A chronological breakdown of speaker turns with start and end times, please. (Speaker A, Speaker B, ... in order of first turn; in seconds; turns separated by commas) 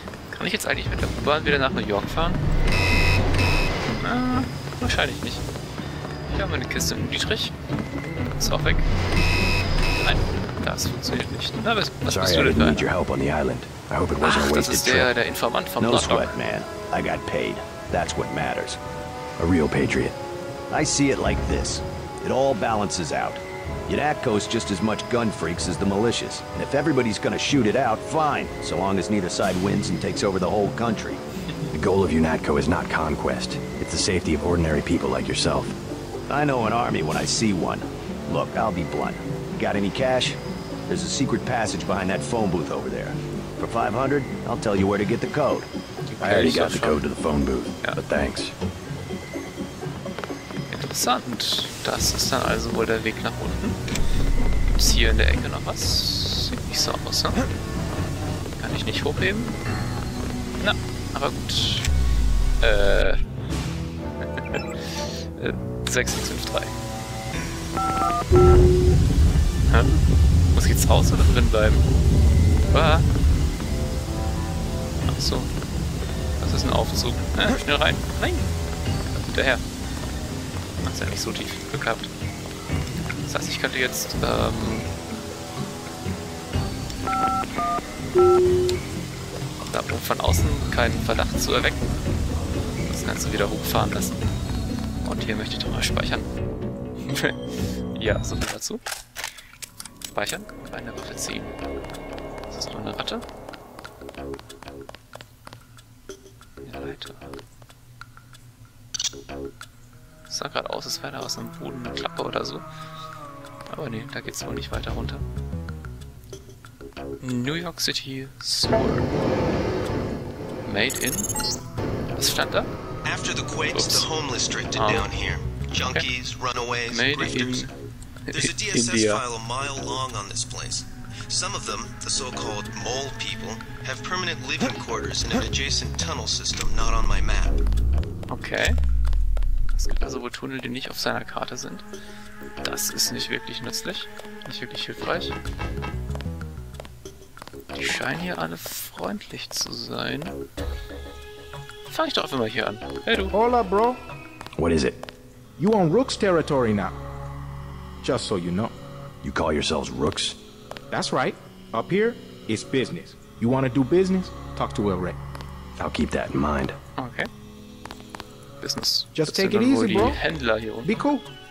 Speaker A: 0.3-2.4, Speaker A: 3.8-5.4, Speaker A: 6.3-7.5, Speaker A: 8.4-8.9, Speaker A: 9.9-12.9, Speaker B: 12.1-15.1, Speaker A: 14.2-16.4, Speaker C: 15.8-18.8, Speaker B: 19.4-20.1, Speaker C: 20.7-31.2, Speaker B: 31.7-35.8, Speaker C: 36.3-45.7, Speaker A: 46.1-47.1, Speaker B: 46.2-48.5, Speaker A: 50.7-53.8, Speaker A: 54.6-57.4, Speaker A: 58.6-59.6, Speaker A: 60.6-61.9, Speaker A: 62.6-63.2, Speaker A: 64.3-66.7, Speaker A: 69.7-70.0, Speaker A: 70.5-71.8, Speaker A: 72.7-73.0, Speaker A: 75.1-75.5, Speaker A: 76.4-78.5, Speaker A: 79.2-79.6, Speaker A: 80.8-82.1, Speaker A: 83.2-84.9, Speaker A: 89.6-92.0, Speaker A: 92.9-94.2, Speaker A: 95.0-96.3, Speaker A: 97.0-97.4, Speaker A: 97.9-98.8, Speaker A: 100.1-101.6, Speaker A: 102.5-103.2, Speaker A: 106.6-107.3, Speaker A: 110.3-112.6, Speaker A: 113.7-115.2, Speaker A: 117.2-119.1, Speaker A: 120.6-121.3, Speaker A: 122.2-122.7, Speaker D: 123.0-127.7, Speaker A: 123.7-124.1, Speaker A: 124.8-125.1, Speaker A: 126.9-127.7, Speaker A: 128.3-129.2, Speaker D: 128.3-137.6, Speaker A: 138.3-138.8, Speaker A: 139.7-141.8, Speaker A: 142.6-145.3, Speaker A: 147.7-150.4, Speaker A: 151.9-153.3, Speaker E: 153.3-154.0, Speaker B: 154.6-155.0, Speaker E: 155.6-156.9, Speaker E: 158.0-158.7, Speaker B: 159.2-160.4, Speaker E: 160.9-165.2, Speaker B: 165.8-166.8, Speaker A: 167.0-167.3, Speaker A: 168.6-171.0, Speaker E: 169.1-170.2, Speaker E: 170.8-171.2